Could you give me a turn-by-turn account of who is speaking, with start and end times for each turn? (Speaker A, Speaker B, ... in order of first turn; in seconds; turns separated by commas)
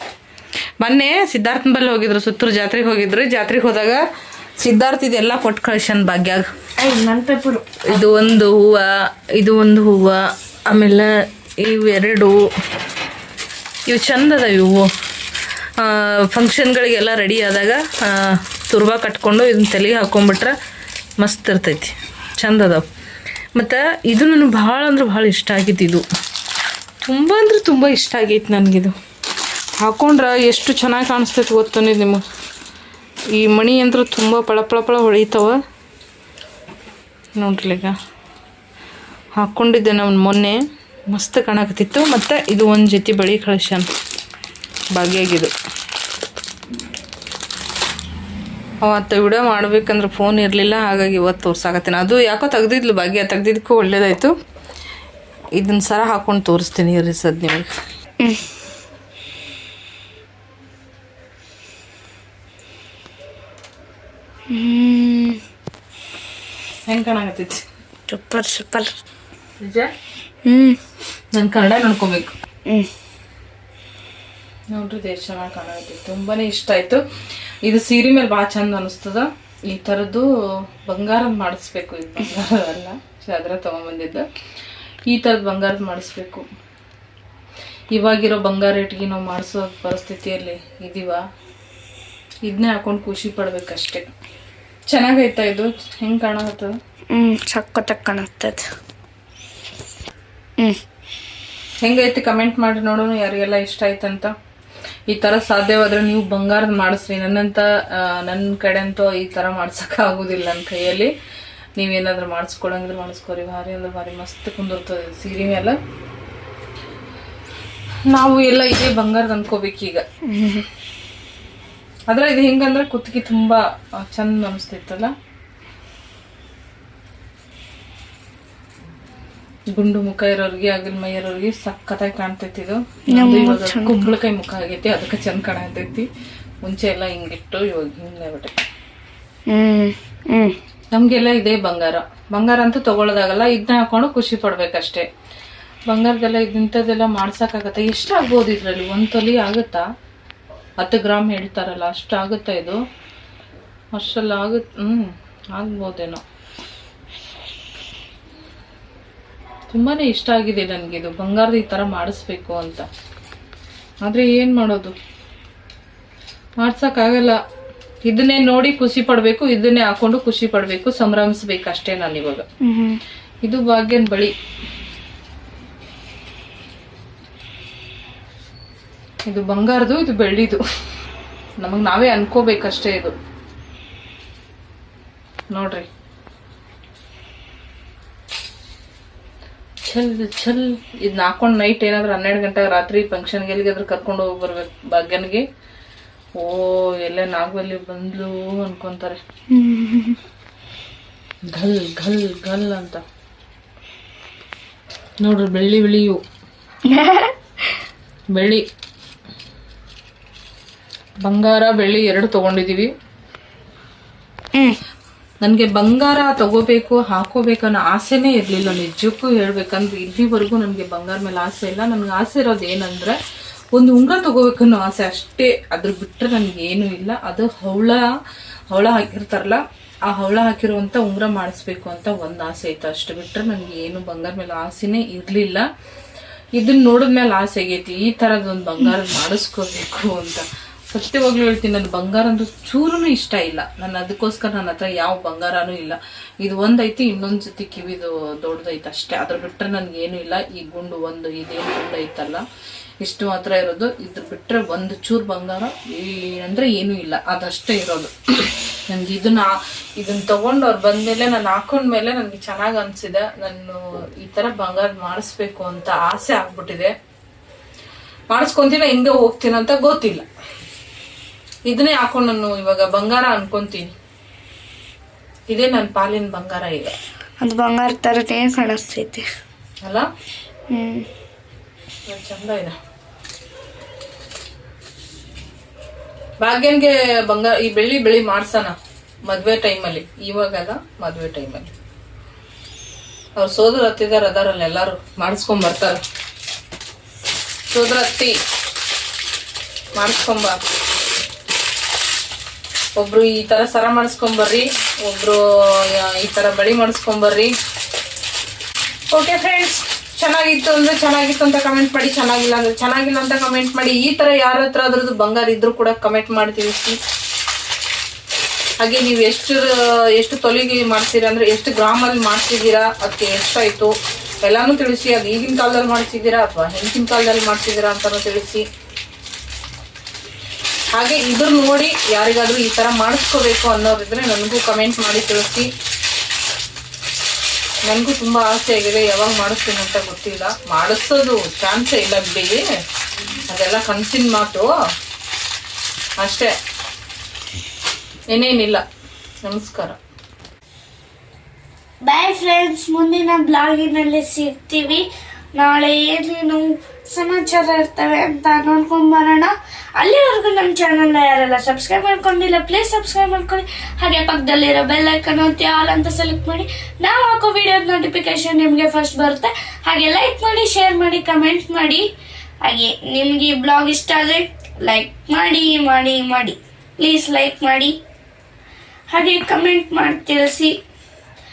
Speaker A: 0.8-4.0, Speaker A: 4.6-6.5, Speaker B: 6.8-8.0, Speaker A: 7.8-12.4, Speaker A: 13.9-14.9, Speaker A: 15.8-20.5, Speaker A: 21.2-22.9, Speaker A: 23.5-26.0, Speaker A: 27.0-28.9, Speaker A: 29.8-32.2, Speaker A: 33.3-35.6, Speaker A: 37.4-38.0, Speaker A: 39.4-43.9, Speaker A: 44.9-45.5, Speaker A: 48.8-54.3, Speaker A: 55.6-57.7, Speaker B: 64.5-65.4, Speaker A: 66.9-67.6, Speaker B: 68.1-68.9, Speaker A: 69.6-69.9, Speaker B: 70.4-70.8, Speaker A: 71.3-72.3, Speaker A: 74.7-77.0, Speaker A: 77.6-80.3, Speaker A: 80.9-84.2, Speaker A: 85.1-86.4, Speaker A: 87.9-91.2, Speaker A: 92.5-94.1, Speaker A: 94.9-96.7, Speaker B: 97.1-98.7, Speaker A: 101.8-104.3, Speaker A: 105.1-111.1, Speaker A: 111.8-115.8, Speaker A: 118.1-120.0, Speaker B: 120.3-120.7, Speaker A: 122.1-125.1, Speaker A: 129.7-136.1, Speaker B: 133.1-134.1, Speaker A: 136.6-138.5, Speaker B: 139.5-140.6, Speaker A: 140.9-145.1, Speaker A: 145.9-149.9, Speaker A: 150.8-152.8, Speaker A: 153.9-156.2, Speaker A: 159.7-162.9, Speaker A: 164.0-164.9, Speaker A: 166.6-167.4, Speaker A: 168.0-172.4, Speaker B: 172.6-173.0, Speaker A: 173.4-174.3, Speaker A: 179.3-180.6, Speaker A: 181.6-183.1, Speaker A: 185.5-185.9, Speaker A: 189.8-195.4, Speaker A: 196.4-199.2, Speaker B: 199.5-200.2, Speaker A: 201.5-203.0, Speaker A: 205.2-206.2, Speaker B: 206.8-207.8, Speaker A: 208.3-208.6, Speaker A: 211.2-212.9, Speaker A: 215.4-223.2, Speaker A: 223.7-228.0, Speaker A: 228.7-235.6, Speaker A: 236.6-252.4, Speaker A: 253.0-266.9, Speaker A: 268.3-270.2, Speaker A: 271.6-273.9, Speaker A: 275.5-276.9, Speaker B: 277.4-279.2, Speaker B: 280.7-281.1, Speaker A: 282.1-282.7, Speaker A: 286.4-288.8, Speaker A: 289.3-291.7, Speaker A: 293.4-296.0, Speaker A: 297.7-298.3, Speaker A: 299.9-300.6, Speaker A: 303.0-307.5, Speaker A: 309.1-317.0, Speaker A: 318.8-323.9, Speaker A: 324.4-328.6, Speaker A: 330.9-335.7, Speaker A: 337.8-342.6, Speaker A: 343.5-344.7, Speaker A: 346.2-346.5, Speaker A: 348.3-348.8, Speaker A: 349.4-350.0, Speaker B: 352.0-372.1, Speaker B: 372.6-378.0, Speaker B: 379.1-380.8